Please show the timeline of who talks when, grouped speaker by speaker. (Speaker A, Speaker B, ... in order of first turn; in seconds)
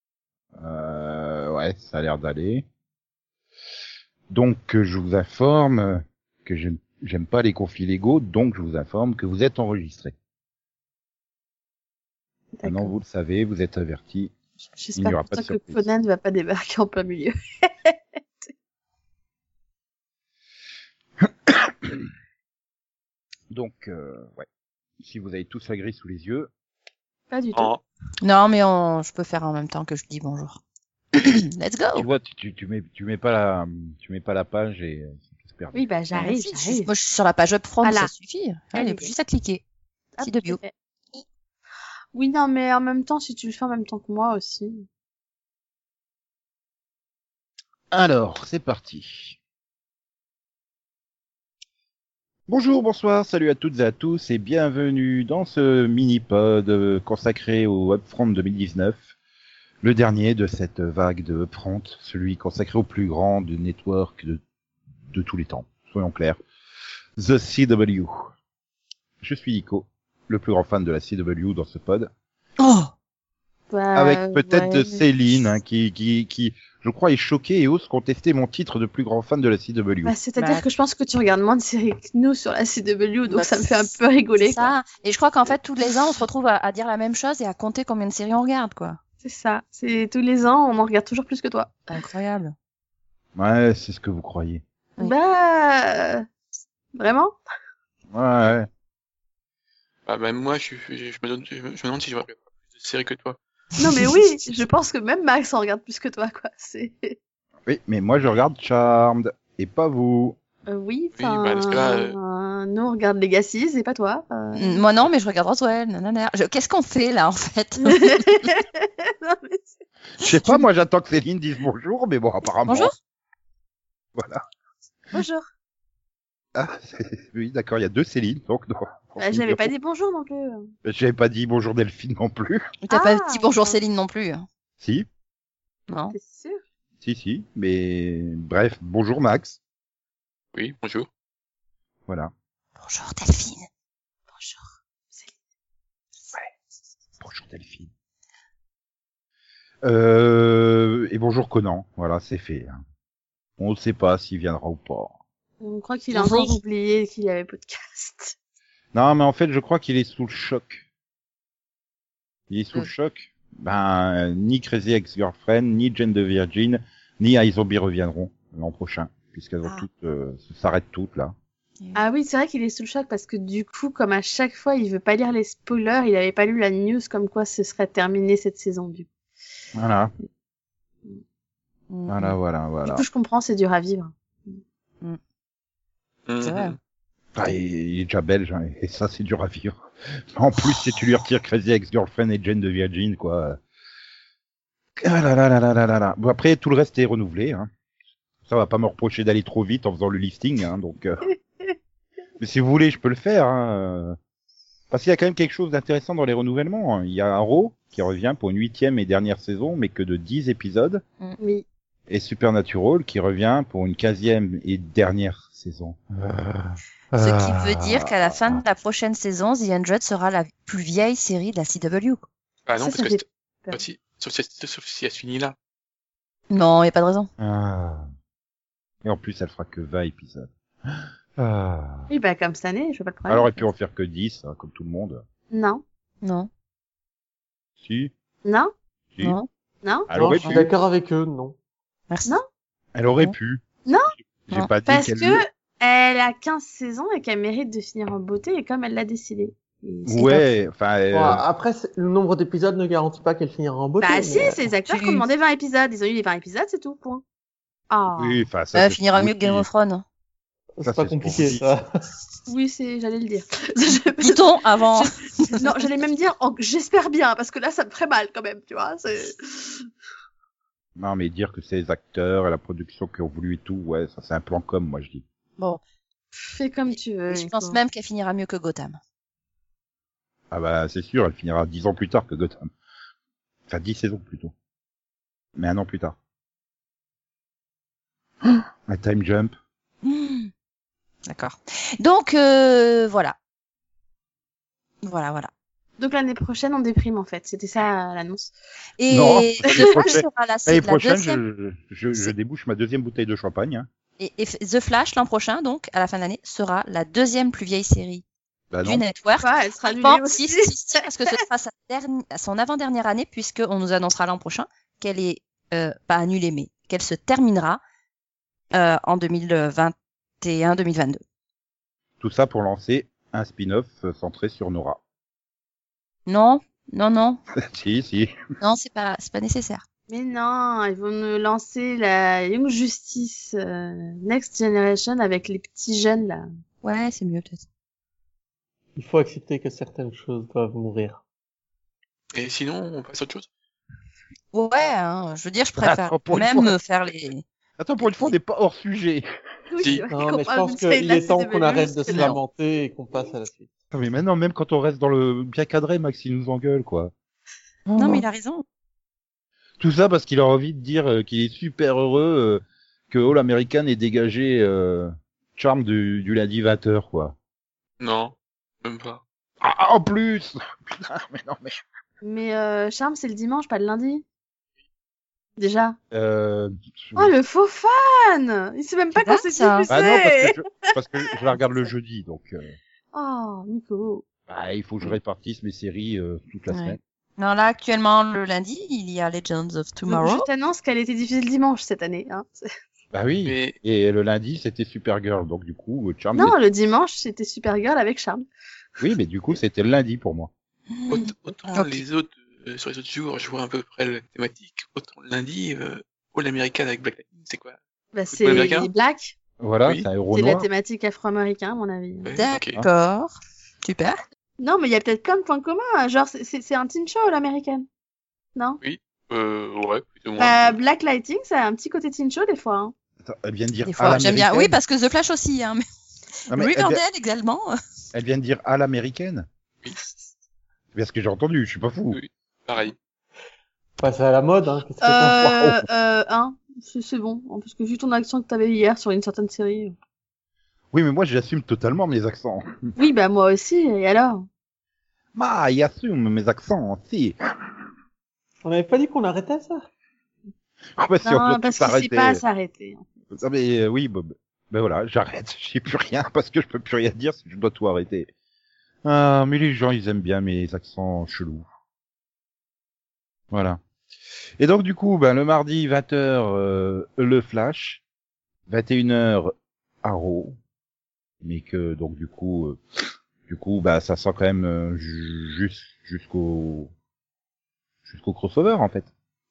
Speaker A: 0.6-2.6, 4.3-10.1, 12.6-14.3, 14.9-15.8, 21.5-22.1, 23.5-24.4, 25.0-26.5, 31.9-35.8, 47.9-49.4, 52.5-59.1, 59.8-64.4, 65.1-66.4, 67.2-68.1, 69.2-72.1, 73.9-80.1, 93.3-94.6, 98.1-98.7, 107.7-110.4, 120.2-122.9, 124.2-124.4, 126.5-129.7, 130.8-132.7, 134.8-135.1, 137.0-139.6, 147.2-147.9, 149.8-152.8, 153.6-155.1, 158.9-160.8, 162.5-171.3, 179.7-180.1, 182.1-183.0, 187.3-189.8, 190.3-193.6, 195.0-197.7, 198.4-201.2, 202.4-204.2, 204.9-211.0, 212.1-218.6, 227.4-228.0, 229.0-230.5, 231.4-232.1, 233.3-235.2, 237.8-238.1, 240.1-240.7, 242.9-243.6, 244.4-245.4, 250.1-251.4, 258.2-259.7, 260.8-261.7, 271.0-275.2, 280.5-282.7, 283.7-284.5, 285.6-286.1, 288.4-289.5, 299.1-303.9, 308.7-309.0, 322.2-325.0, 327.6-328.3, 345.8-346.8, 347.8-349.2, 353.9-357.1, 357.9-358.2, 359.8-367.4, 369.6-371.7, 376.1-377.3, 379.9-382.7, 384.5-387.0, 393.1-396.6, 399.0-400.5, 409.6-410.7, 423.2-424.8, 426.5-427.0, 428.1-429.5, 430.9-432.2, 435.6-435.8, 440.9-442.9, 445.3-447.4, 451.0-452.4, 453.3-458.3, 459.0-461.7, 463.5-463.8, 464.6-468.0, 468.7-470.6, 471.4-472.8, 473.5-476.9, 478.1-479.1
Speaker B: 12.6-12.9, 14.8-17.9, 27.3-27.7, 35.7-36.9, 37.8-38.1, 38.7-39.1, 40.2-40.7, 42.1-44.9, 73.7-75.0, 80.0-84.7, 89.2-92.0, 95.0-96.2, 96.9-97.4, 103.8-107.1, 110.7-114.8, 117.8-119.7, 125.1-125.5, 129.2-130.7, 132.9-133.8, 136.1-136.6, 144.3-145.3, 155.6-158.3, 171.9-179.1, 182.8-184.6, 211.4-211.6, 222.8-223.8, 232.1-233.6, 235.5-235.8, 238.4-238.7, 239.8-240.1, 243.8-244.1, 244.8-250.4, 254.0-257.2, 257.9-258.4, 262.5-269.9, 276.3-277.8, 296.0-298.5, 309.4-311.4, 330.1-336.4, 349.7-352.3, 372.2-374.2, 375.6-376.0, 377.1-380.6, 383.1-384.2, 390.1-392.7, 396.3-398.4, 408.1-409.4, 410.3-412.3, 414.6-417.9, 420.4-422.9, 435.0-439.9, 442.9-444.5, 451.2-453.1
Speaker C: 27.5-27.8, 100.0-103.4, 111.2-112.2, 140.5-141.1, 186.3-186.8, 222.7-225.5, 342.3-343.5, 368.0-369.2, 393.4-393.8, 401.1-407.8, 408.3-408.9, 412.2-412.8, 418.8-420.8, 432.1-432.9
Speaker D: 28.2-30.6, 31.1-32.1, 36.1-39.6, 40.2-40.6, 72.6-72.9, 80.3-80.6, 83.3-89.0, 91.9-92.5, 114.5-118.5, 122.7-123.0, 132.8-134.4, 135.9-136.1, 142.8-143.7, 156.1-156.6, 181.9-182.3, 186.4-186.8, 217.2-222.2, 226.5-227.3, 236.2-236.5, 239.2-239.5, 242.1-242.3, 254.8-255.2, 258.7-260.0, 264.2-265.7, 277.3-279.0, 290.0-290.5, 291.3-293.4, 295.0-295.5, 299.0-301.4, 304.2-308.2, 308.8-317.8, 318.7-321.2, 326.3-327.4, 328.6-329.8, 336.8-337.6, 344.5-347.4, 348.0-348.3, 352.1-352.4, 357.9-358.6, 379.1-379.9, 386.7-390.5, 400.9-402.0, 412.4-414.2, 423.9-425.8, 426.4-427.8
Speaker E: 240.1-241.5, 251.1-254.6, 260.8-261.9, 338.9-341.2, 350.1-353.7, 434.0-435.6, 448.6-449.9